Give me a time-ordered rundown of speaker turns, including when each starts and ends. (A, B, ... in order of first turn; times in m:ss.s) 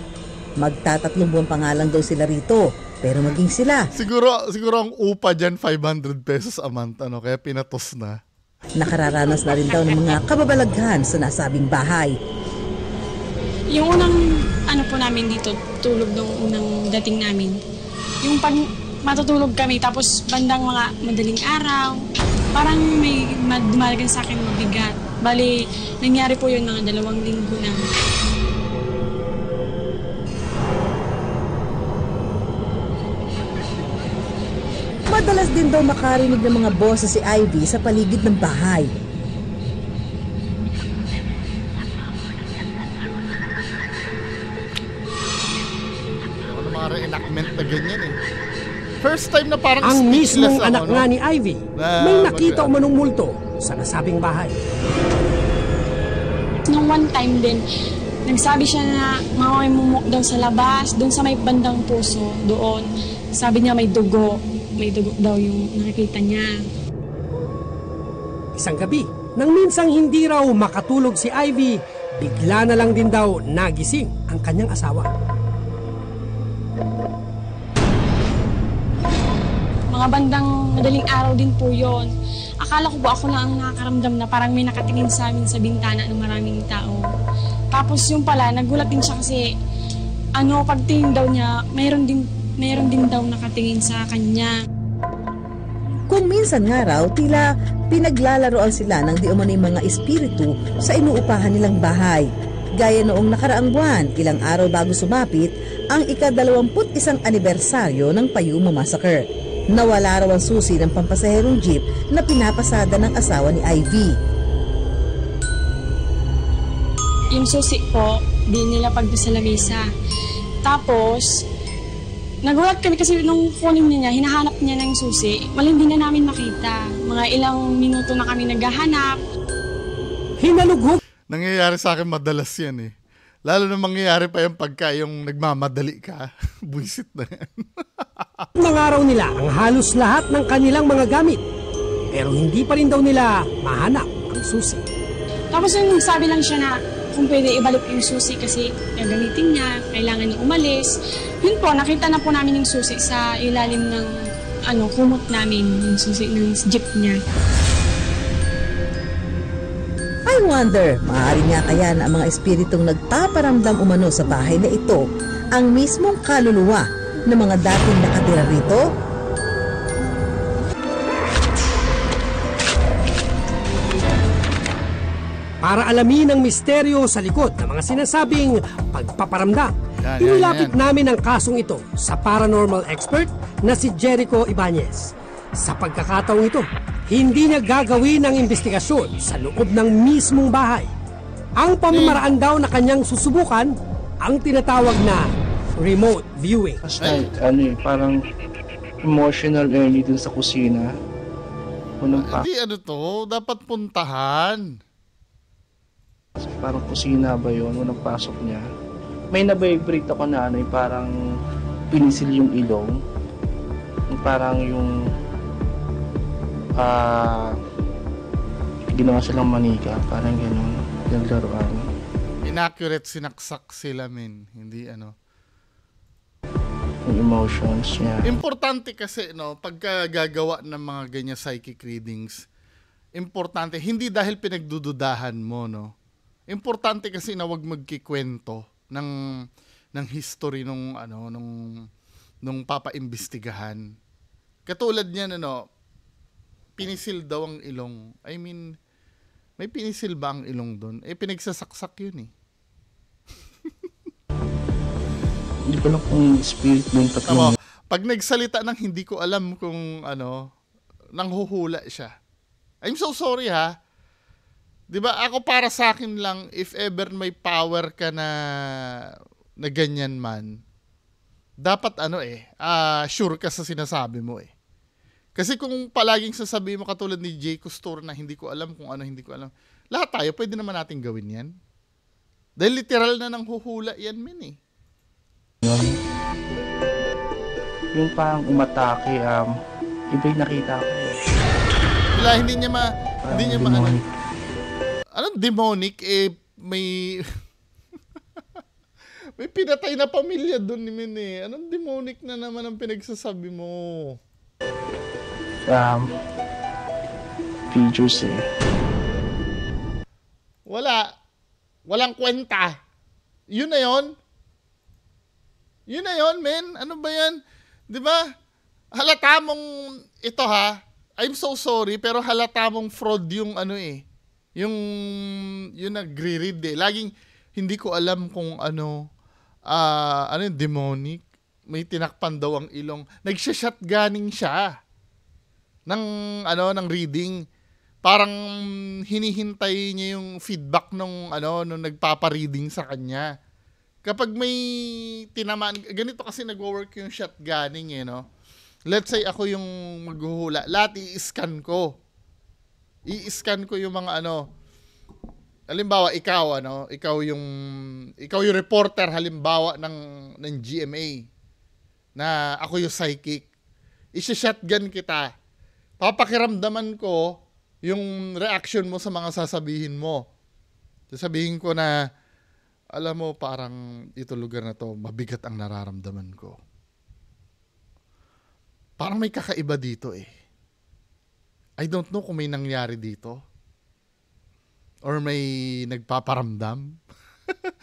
0:00.6-0:03.8 A
0:04.0-0:08.2 B
0:08.8-0:12.1 A
0:13.7-0:17.6 C
0:18.2-0:21.9 C
0:22.5-0:27.8 C
0:35.1-0:38.9 A
0:46.4-0:48.2 B
0:49.0-0:51.1 B
0:49.8-0:54.6 D
0:51.8-0:52.8 B
0:56.7-0:57.6 C
0:58.3-1:06.6 C
1:08.6-1:15.1 D
1:19.9-1:22.1 C
1:22.6-1:27.0 C
1:27.7-1:29.4 C
1:30.4-1:34.5 C
1:36.1-1:42.3 A
1:42.8-1:49.2 A
1:49.7-1:54.1 A
1:57.4-1:59.9 C
2:00.6-2:01.4 C
2:02.5-2:09.2 C
2:10.4-2:11.0 D
2:11.3-2:12.9 B
2:13.5-2:18.5 B
2:18.6-2:21.4 D
2:22.1-2:24.8 D
2:25.5-2:34.1 C
2:34.7-2:37.2 C
2:40.3-2:45.0 A
2:45.6-2:48.8 A
2:55.6-3:10.9 D
3:00.0-3:00.8 B
3:11.6-3:13.7 D
3:11.9-3:12.2 B
3:14.2-3:15.2 D
3:15.8-3:16.8 D
3:16.8-3:18.2 E
3:19.0-3:20.9 E
3:22.0-3:22.5 E
3:22.2-3:24.7 B
3:26.4-3:28.6 E
3:29.3-3:31.2 E
3:31.9-3:33.0 E
3:34.1-3:35.0 E
3:36.8-3:37.6 E
3:38.9-3:41.9 E
3:42.4-3:45.1 B
3:47.1-3:48.3 E
3:48.2-3:52.4 B
3:53.2-3:55.9 B
3:56.5-3:59.1 B
3:59.9-4:01.5 B
4:02.4-4:03.8 B
4:04.7-4:05.6 B
4:06.8-4:08.6 B
4:09.6-4:12.3 B
4:15.7-4:17.6 E
4:17.3-4:20.4 B
4:21.2-4:22.1 B
4:22.8-4:23.7 B
4:24.9-4:28.3 B
4:29.6-4:30.5 B
4:31.6-4:34.5 B
4:35.4-4:41.5 B
4:42.6-4:44.6 B
4:45.6-4:46.0 E
4:47.9-4:49.5 E
4:50.1-4:51.2 E
4:52.2-4:54.0 B
4:53.2-4:54.1 E
4:55.2-4:57.2 B
4:59.4-5:04.2 B
5:05.7-5:06.1 E
5:07.7-5:08.4 E
5:10.7-5:11.0 B
5:11.9-5:12.8 B
5:13.5-5:14.1 B
5:15.9-5:17.4 B
5:17.9-5:18.2 B
5:19.0-5:19.6 B
5:20.2-5:24.0 B
5:24.6-5:29.0 B
5:29.7-5:34.6 B
5:35.9-5:37.4 B
5:38.0-5:38.4 B
5:39.1-5:43.3 B
5:44.0-5:48.2 B
5:48.9-5:51.9 B
5:53.1-5:54.4 B
5:55.7-5:57.5 B
5:58.2-6:01.2 B
6:02.2-6:03.5 B
6:04.2-6:05.3 B
6:06.0-6:07.2 B
6:07.9-6:10.2 B
6:11.1-6:11.9 B
6:13.0-6:16.6 B
6:19.0-6:20.3 B
6:21.8-6:23.4 B
6:25.1-6:26.9 B